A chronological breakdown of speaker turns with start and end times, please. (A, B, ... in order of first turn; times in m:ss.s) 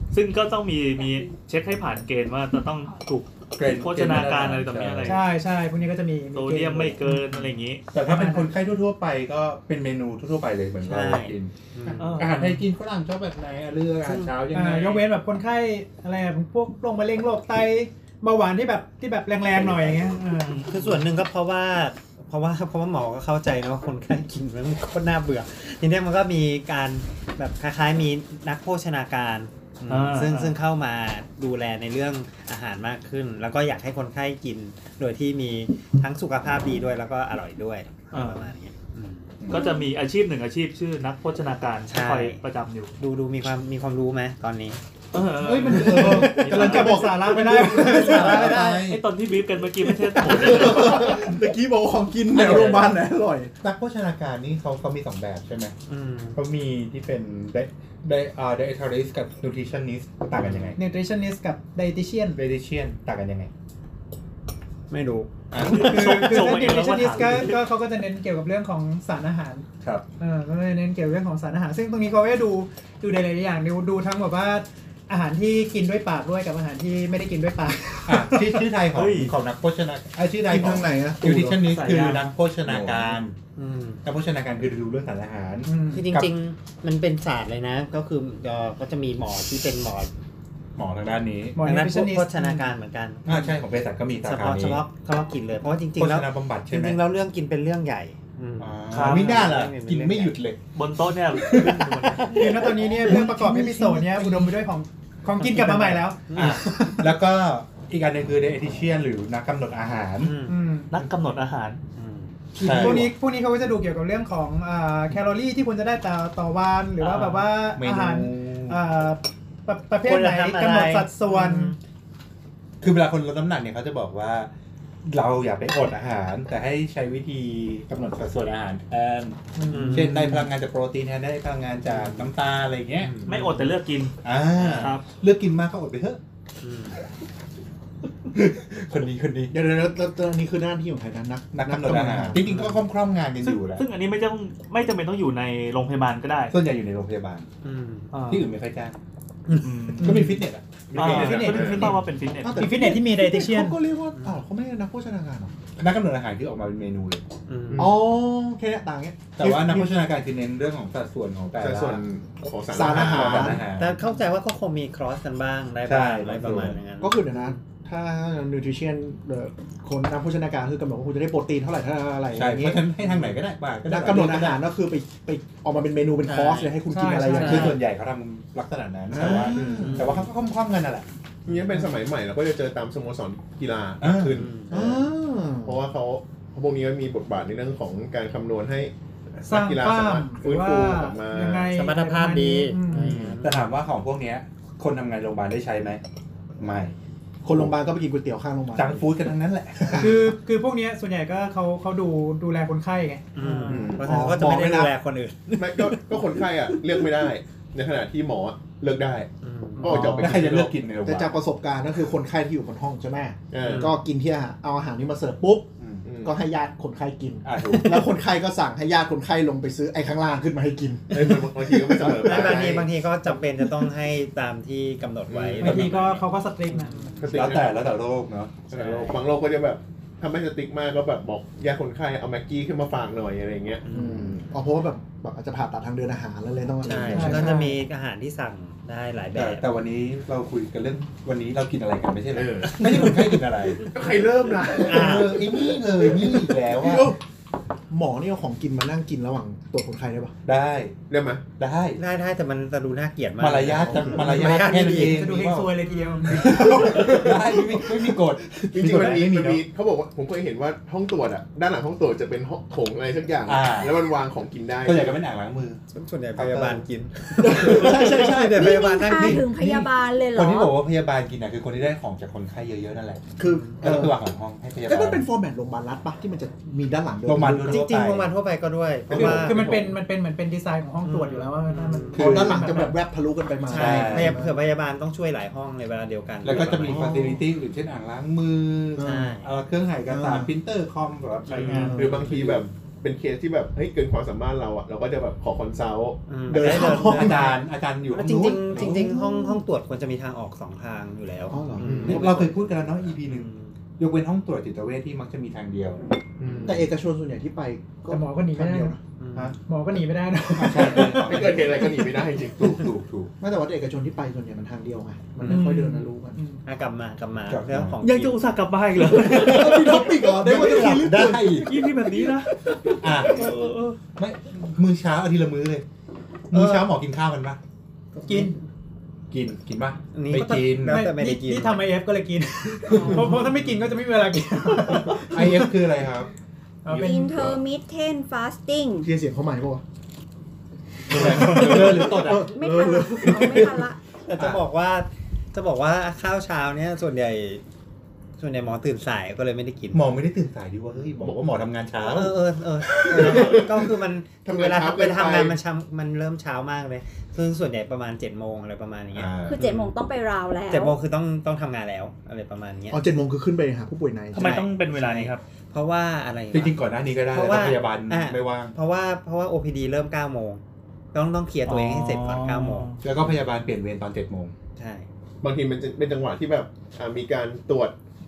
0:00.1-0:05.3 A
0:03.6-0:05.2 B
0:05.0-0:07.4 C
0:06.3-0:07.8 A
0:07.9-0:15.0 B
0:08.0-0:08.6 C
0:10.8-0:12.2 D
0:12.0-0:12.4 A
0:12.4-0:12.6 C
0:14.0-0:14.4 D
0:14.5-0:20.8 C
0:19.5-0:20.2 B
0:20.4-0:20.7 A
0:20.7-0:39.3 D
0:29.9-0:30.6 A
0:38.1-0:38.5 A
0:39.4-0:39.7 B
0:39.5-0:42.9 A
0:41.9-0:42.4 D
0:43.0-0:44.8 D
0:45.1-0:47.0 A
0:45.4-0:49.0 B
0:45.4-0:48.2 E
0:46.2-0:48.4 C
0:47.7-0:49.0 D
0:48.9-0:51.2 A
0:50.2-0:53.5 E
0:52.3-0:53.0 B
0:53.6-0:55.7 B
0:55.9-0:56.4 D
0:56.4-1:00.8 B
1:00.4-1:00.8 D
1:00.8-1:02.4 C
1:02.4-1:03.5 B
1:04.9-1:05.3 D
1:05.5-1:06.5 B
1:05.6-1:07.6 A
1:05.6-1:09.7 C
1:10.2-1:18.7 C
1:18.1-1:23.4 B
1:18.9-1:19.3 A
1:20.5-1:21.6 E
1:21.6-1:22.3 A
1:23.6-1:24.0 D
1:24.0-1:26.3 B
1:25.6-1:26.1 C
1:25.9-1:30.1 D
1:30.8-1:31.6 B
1:31.5-1:32.7 C
1:31.6-1:33.6 D
1:33.2-1:34.8 B
1:34.1-1:40.4 D
1:36.0-1:37.0 B
1:38.6-1:40.6 B
1:38.9-1:39.5 A
1:40.8-1:42.5 A
1:42.3-1:47.1 C
1:42.8-1:44.6 E
1:43.0-1:43.6 B
1:45.5-1:46.7 D
1:45.7-1:50.4 B
1:50.2-1:50.6 D
1:50.4-1:50.9 C
1:50.9-1:51.8 A
1:52.0-1:52.4 D
1:52.6-2:01.8 C
1:52.6-1:53.1 B
1:57.0-1:57.4 D
1:57.7-1:58.8 B
2:00.0-2:01.7 D
2:02.8-2:04.5 B
2:05.0-2:13.3 B
2:09.6-2:10.2 C
2:09.7-2:10.3 D
2:11.9-2:12.3 D
2:13.0-2:13.6 D
2:13.3-2:14.2 A
2:14.2-2:16.2 B
2:14.6-2:15.0 D
2:14.7-2:15.1 A
2:16.6-2:17.0 D
2:18.3-2:19.6 B
2:19.5-2:22.4 E
2:21.5-2:23.8 B
2:22.3-2:22.8 D
2:23.4-2:26.6 A
2:26.5-2:27.5 B
2:27.6-2:28.1 D
2:28.1-2:28.5 A
2:28.3-2:29.0 B
2:29.5-2:29.9 D
2:29.6-2:30.4 A
2:30.0-2:31.9 B
2:30.0-2:30.4 C
2:30.9-2:32.0 F
2:30.9-2:32.7 A
2:31.2-2:31.8 C
2:32.4-2:35.6 E
2:32.5-2:33.8 C
2:35.8-2:37.2 B
2:37.5-2:38.0 D
2:37.7-2:38.0 F
2:37.8-2:40.0 E
2:39.4-2:42.0 B
2:41.6-2:43.6 F
2:42.7-2:43.6 E
2:42.8-2:44.0 B
2:43.7-2:47.6 D
2:45.8-2:46.8 B
2:47.0-2:52.9 E
2:52.3-2:54.6 B
2:53.1-2:53.4 D
2:53.8-2:57.8 E
2:56.3-2:56.8 D
2:56.9-2:57.8 C
2:57.3-3:01.1 B
2:57.4-2:57.8 D
2:59.1-3:00.1 E
2:59.4-3:00.3 D
3:01.5-3:05.1 F
3:04.0-3:04.4 B
3:04.4-3:04.7 D
3:04.7-3:05.8 E
3:05.6-3:08.9 F
3:09.4-3:11.7 F
3:09.4-3:13.2 C
3:11.7-3:13.7 D
3:12.9-3:13.4 E
3:12.9-3:13.4 F
3:13.4-3:16.0 B
3:16.6-3:16.9 B
3:17.4-3:19.1 E
3:18.8-3:20.3 B
3:19.8-3:20.1 E
3:19.9-3:24.0 C
3:23.4-3:26.0 D
3:23.7-3:24.0 F
3:23.8-3:24.9 E
3:25.6-3:29.3 F
3:29.4-3:29.9 D
3:29.8-3:30.8 F
3:29.9-3:31.4 B
3:31.0-3:42.7 E
3:33.5-3:33.9 F
3:33.6-3:34.0 D
3:35.8-3:36.0 B
3:36.0-3:36.4 F
3:37.4-3:38.1 B
3:41.1-3:42.9 F
3:42.2-3:47.4 D
3:45.3-3:45.8 F
3:45.6-3:47.2 C
3:45.6-3:46.0 B
3:47.2-3:47.8 F
3:47.2-3:49.1 B
3:48.7-3:49.2 D
3:48.7-3:54.4 F
3:53.9-3:57.6 E
3:56.8-3:59.7 D
3:57.1-3:57.8 C
3:59.4-4:03.9 B
4:02.3-4:03.3 F
4:02.8-4:03.3 E
4:03.9-4:05.2 F
4:04.2-4:07.2 E
4:04.8-4:05.4 D
4:04.9-4:07.1 B
4:07.9-4:10.4 E
4:10.5-4:11.0 B
4:11.1-4:11.5 F
4:11.6-4:12.0 B
4:12.0-4:15.3 D
4:13.4-4:15.7 B
4:13.8-4:14.3 E
4:14.4-4:16.4 C
4:15.9-4:16.2 D
4:16.3-4:19.6 B
4:16.3-4:17.9 E
4:18.7-4:25.2 F
4:23.4-4:24.0 B
4:24.8-4:25.8 B
4:25.9-4:29.4 D
4:26.4-4:26.8 B
4:27.4-4:29.0 E
4:27.5-4:33.2 B
4:28.4-4:30.8 G
4:33.4-4:34.2 E
4:33.8-4:35.2 B
4:34.8-4:37.8 E
4:37.3-4:38.3 B
4:37.6-4:39.6 D
4:39.1-4:39.7 B
4:39.2-4:43.0 C
4:41.0-4:42.2 D
4:42.1-4:42.8 B
4:42.1-4:44.6 E
4:43.7-4:44.4 B
4:43.7-4:47.1 D
4:46.4-4:52.6 B
4:46.5-4:47.4 E
4:49.0-4:49.3 E
4:49.0-4:49.5 D
4:50.1-4:50.5 E
4:51.5-4:52.0 D
4:51.7-4:52.4 E
4:51.9-4:56.6 F
4:56.3-5:02.4 D
4:56.5-4:57.6 E
4:56.5-4:59.1 B
4:58.7-4:59.6 E
5:01.5-5:02.5 E
5:01.8-5:02.3 F
5:02.0-5:06.0 B
5:03.2-5:03.7 D
5:06.4-5:06.9 F
5:06.6-5:09.0 E
5:08.1-5:09.0 C
5:09.2-5:09.6 D
5:09.6-5:11.4 C
5:10.6-5:13.3 B
5:11.2-5:12.9 F
5:13.4-5:16.4 E
5:15.4-5:16.6 C
5:16.6-5:18.4 D
5:17.5-5:18.0 B
5:18.0-5:20.1 A
5:19.2-5:21.9 E
5:19.5-5:21.8 B
5:21.6-5:22.5 A
5:22.7-5:23.1 E
5:23.0-5:23.6 B
5:23.2-5:24.0 A
5:24.2-5:25.8 B
5:26.5-5:27.6 B
5:28.2-5:28.5 D
5:28.3-5:28.6 C
5:29.3-5:31.1 B
5:30.1-5:31.9 D
5:30.7-5:35.7 C
5:34.9-5:36.3 B
5:36.8-5:37.4 C
5:36.9-5:37.6 B
5:36.9-5:39.1 G
5:39.0-5:39.8 E
5:41.1-5:42.6 B
5:41.1-5:43.9 E
5:42.3-5:44.0 G
5:44.3-5:47.6 D
5:44.4-5:44.6 B
5:48.4-5:50.1 D
5:49.9-5:52.4 B
5:51.2-5:51.5 F
5:52.0-5:59.9 D
5:53.1-5:55.6 F
5:53.2-5:53.5 B
5:59.1-5:59.7 B
5:59.5-6:01.0 G
6:00.7-6:03.0 D
6:02.9-6:04.6 E
6:04.3-6:05.4 A
6:04.4-6:10.6 D
6:06.5-6:08.7 B
6:11.1-6:12.9 D
6:11.7-6:13.0 A
6:13.0-6:14.5 B
6:14.8-6:15.1 D
6:15.4-6:18.0 F